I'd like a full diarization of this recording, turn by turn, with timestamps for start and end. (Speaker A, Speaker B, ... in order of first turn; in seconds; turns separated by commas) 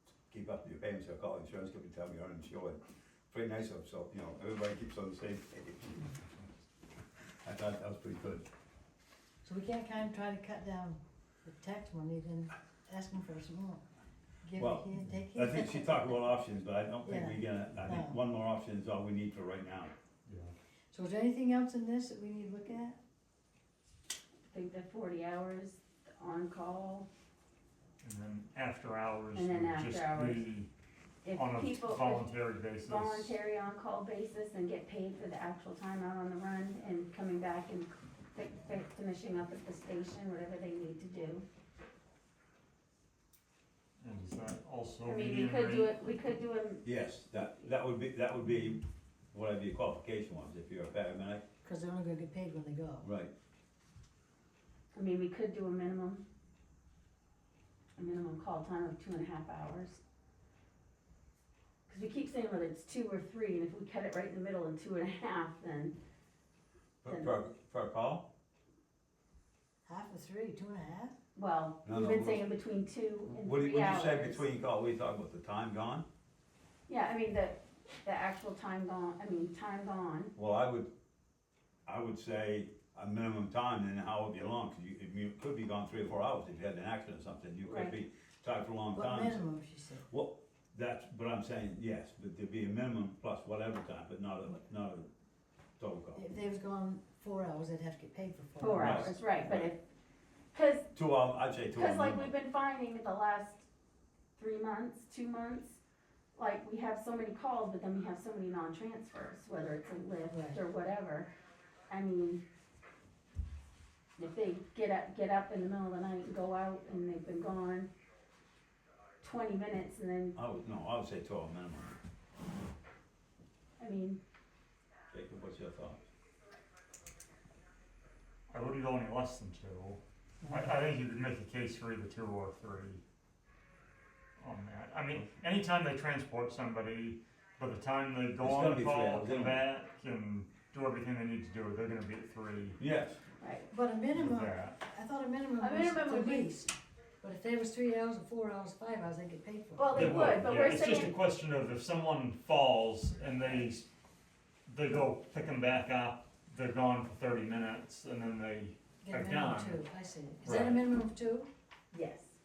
Speaker A: 0.3-6.1, Speaker A: 7.4-8.5, Speaker B: 9.4-13.8, Speaker B: 14.4-16.2, Speaker A: 14.6-19.9, Speaker B: 17.0-18.2, Speaker C: 20.2-20.5, Speaker B: 20.9-23.0, Speaker D: 24.5-27.1, Speaker C: 28.0-30.7, Speaker D: 29.4-30.4, Speaker D: 31.2-32.3, Speaker C: 31.3-33.4, Speaker D: 32.9-41.5, Speaker C: 44.0-45.9, Speaker D: 45.0-46.9, Speaker A: 46.8-51.4, Speaker B: 51.6-53.1, Speaker A: 53.0-53.3, Speaker D: 54.9-56.2, Speaker D: 58.0-60.0, Speaker D: 61.9-65.9, Speaker A: 67.0-68.3, Speaker D: 67.1-67.3, Speaker B: 69.9-71.1, Speaker D: 71.3-74.4, Speaker A: 71.8-72.5, Speaker A: 73.3-76.1, Speaker D: 76.9-80.3, Speaker A: 80.4-80.9, Speaker A: 81.9-89.5, Speaker D: 87.6-88.0, Speaker B: 88.9-90.1, Speaker A: 90.1-95.1, Speaker A: 95.8-96.2, Speaker B: 96.2-99.1, Speaker D: 98.6-99.8, Speaker A: 98.8-99.7, Speaker D: 100.5-100.9, Speaker A: 100.9-102.3, Speaker D: 101.8-103.7, Speaker D: 104.4-105.8, Speaker D: 106.3-111.3, Speaker B: 110.3-110.6, Speaker D: 111.9-112.4, Speaker D: 114.2-117.9, Speaker D: 119.2-120.4, Speaker A: 120.3-122.0, Speaker D: 123.8-124.2, Speaker A: 125.1-126.0, Speaker C: 128.5-133.0, Speaker C: 134.4-142.8, Speaker A: 138.4-139.7, Speaker A: 142.8-143.2, Speaker D: 143.4-143.7, Speaker B: 143.7-150.4, Speaker C: 144.1-144.8, Speaker D: 145.6-146.7, Speaker D: 149.8-151.2, Speaker C: 149.9-153.9, Speaker C: 154.7-159.8, Speaker B: 159.0-161.5, Speaker C: 160.4-160.8, Speaker D: 161.9-162.4